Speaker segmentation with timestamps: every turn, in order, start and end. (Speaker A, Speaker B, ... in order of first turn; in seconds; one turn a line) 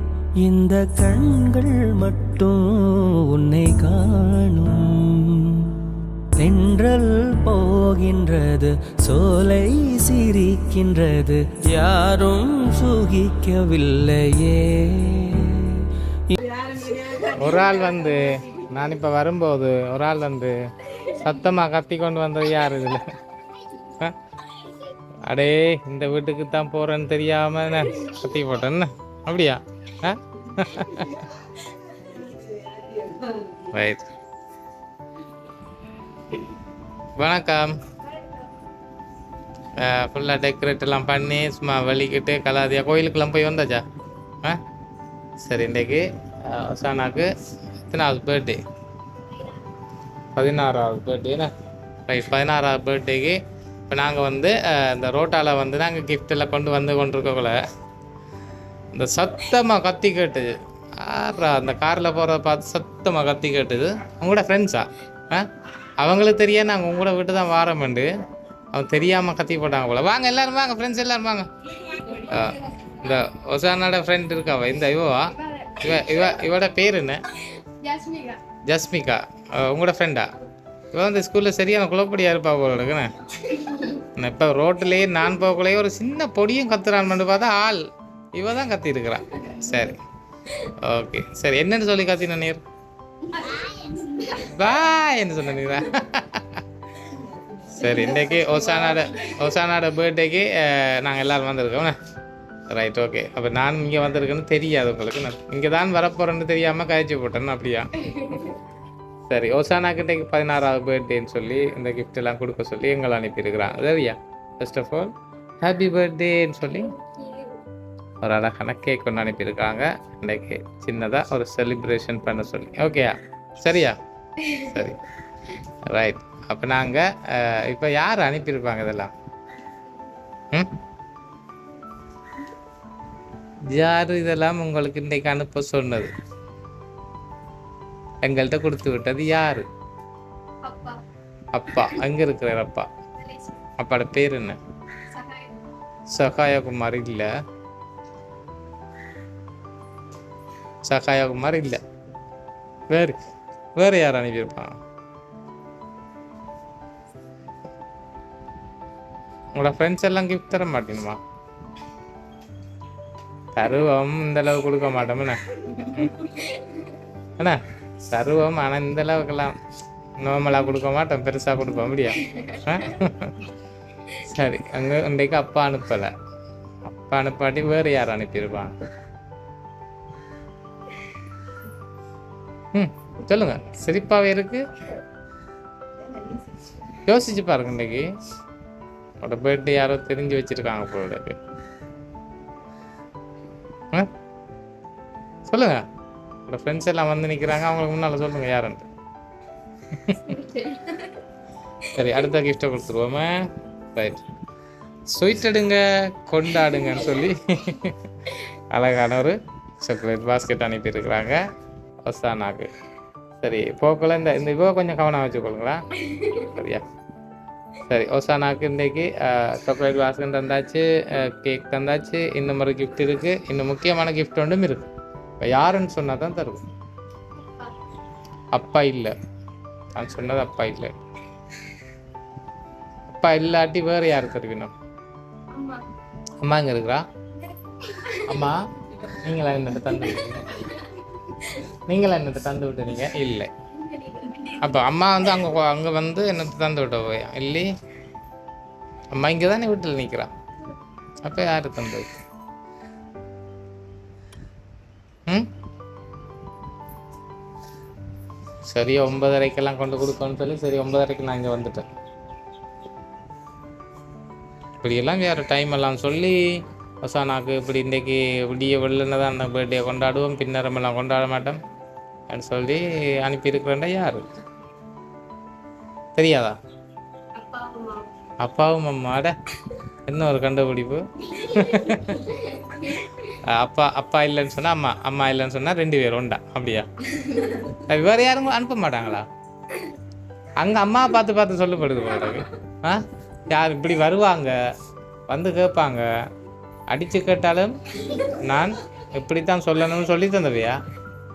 Speaker A: 0.4-16.6
Speaker B: 17.0-23.1
Speaker B: 23.8-24.2
Speaker B: 25.2-31.3
Speaker B: 33.5-34.1
Speaker B: 37.2-37.8
Speaker B: 39.8-43.8
Speaker B: 45.4-47.3
Speaker B: 47.9-48.6
Speaker B: 50.4-51.5
Speaker B: 52.1-53.4
Speaker B: 53.9-57.6
Speaker B: 58.9-65.5
Speaker B: 66.0-68.1
Speaker B: 68.7-77.2
Speaker C: 77.8-78.4
Speaker B: 78.7-80.3
Speaker B: 80.9-87.8
Speaker B: 88.4-90.0
Speaker B: 90.5-92.6
Speaker C: 93.6-94.3
Speaker B: 94.3-96.6
Speaker B: 97.7-102.0
Speaker B: 102.7-108.6
Speaker B: 109.3-115.1
Speaker B: 115.6-117.0
Speaker B: 118.2-125.0
Speaker B: 125.9-129.1
Speaker B: 133.7-136.1
Speaker B: 138.2-139.7
Speaker C: 140.6-141.0
Speaker B: 141.5-142.9
Speaker C: 143.3-143.5
Speaker B: 143.8-144.6
Speaker C: 145.1-145.6
Speaker B: 146.1-147.3
Speaker B: 150.9-151.8
Speaker B: 152.9-153.2
Speaker B: 153.8-154.8
Speaker B: 159.6-161.2
Speaker B: 163.6-166.2
Speaker B: 167.4-169.6
Speaker B: 170.2-173.5
Speaker B: 174.1-176.1
Speaker B: 176.9-178.7
Speaker B: 182.7-184.6
Speaker B: 186.9-188.1
Speaker B: 189.2-191.4
Speaker B: 195.5-195.8
Speaker B: 196.5-198.9
Speaker B: 199.9-200.8
Speaker B: 201.9-204.2
Speaker B: 205.1-211.4
Speaker B: 212.1-212.7
Speaker B: 213.4-216.8
Speaker B: 217.9-224.9
Speaker B: 225.4-226.6
Speaker C: 227.4-227.7
Speaker B: 228.5-229.1
Speaker B: 229.9-230.9
Speaker B: 233.1-234.7
Speaker C: 235.5-235.8
Speaker B: 236.4-237.0
Speaker C: 237.7-238.2
Speaker B: 238.2-240.6
Speaker B: 241.9-243.5
Speaker C: 243.8-244.6
Speaker B: 244.6-247.7
Speaker B: 249.1-250.3
Speaker B: 251.2-252.1
Speaker B: 258.7-261.9
Speaker B: 264.8-266.4
Speaker B: 267.0-271.6
Speaker B: 272.3-274.2
Speaker B: 276.2-276.6
Speaker C: 277.4-278.1
Speaker B: 278.4-279.4
Speaker B: 280.1-289.3
Speaker B: 290.6-294.5
Speaker B: 295.3-296.1
Speaker B: 296.9-300.8